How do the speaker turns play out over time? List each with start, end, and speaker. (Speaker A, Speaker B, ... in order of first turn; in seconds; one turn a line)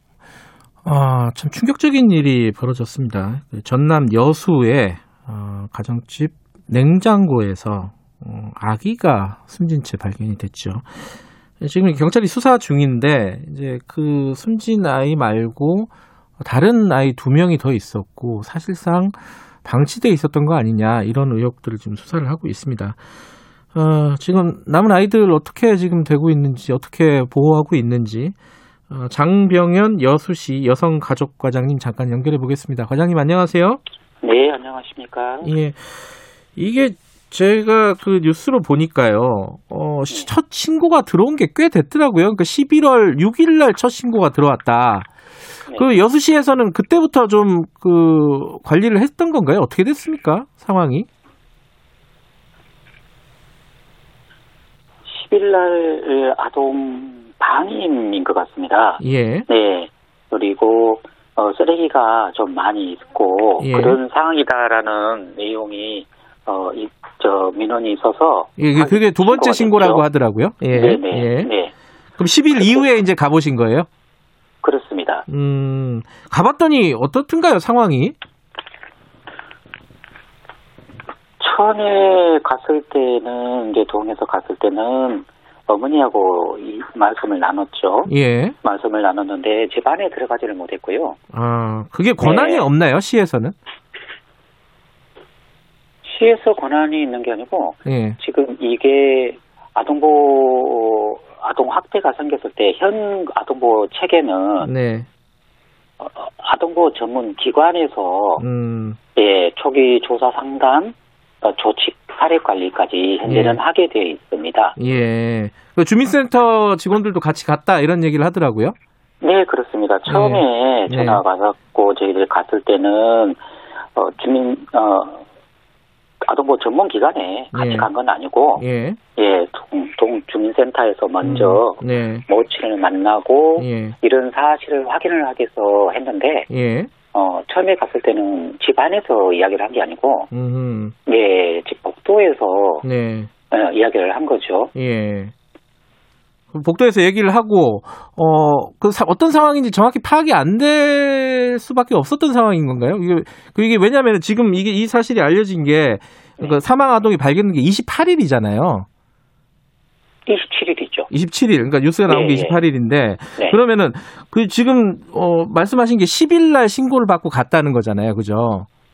Speaker A: 0.8-10.9
Speaker A: 11.6-23.0
Speaker A: 23.7-28.4
Speaker A: 28.9-33.8
Speaker B: 34.2-35.5
Speaker A: 35.4-35.9
Speaker A: 36.6-45.1
Speaker B: 45.7-46.0
Speaker A: 45.8-51.1
Speaker B: 55.1-70.1
Speaker A: 59.0-59.5
Speaker A: 63.6-64.0
Speaker A: 68.6-71.5
Speaker B: 70.7-71.7
Speaker A: 72.2-73.9
Speaker B: 72.6-72.9
Speaker B: 74.6-75.3
Speaker A: 75.3-78.2
Speaker B: 81.4-91.2
Speaker A: 88.1-88.6
Speaker A: 91.3-93.5
Speaker B: 92.2-92.7
Speaker B: 96.0-104.7
Speaker A: 97.8-98.2
Speaker A: 104.6-105.1
Speaker B: 106.0-108.4
Speaker A: 108.4-109.0
Speaker B: 109.2-114.8
Speaker A: 113.2-113.6
Speaker A: 114.8-118.8
Speaker B: 119.2-123.4
Speaker A: 120.1-121.2
Speaker B: 124.0-125.2
Speaker B: 126.2-128.6
Speaker A: 127.5-127.9
Speaker A: 128.6-129.0
Speaker B: 129.2-136.5
Speaker A: 131.2-132.2
Speaker A: 133.6-134.0
Speaker A: 136.5-136.9
Speaker B: 137.1-140.3
Speaker A: 140.3-140.9
Speaker B: 141.1-142.8
Speaker A: 142.8-143.3
Speaker B: 143.5-144.7
Speaker A: 144.8-145.3
Speaker A: 146.5-158.9
Speaker B: 160.3-161.1
Speaker A: 161.1-168.7
Speaker B: 162.1-162.6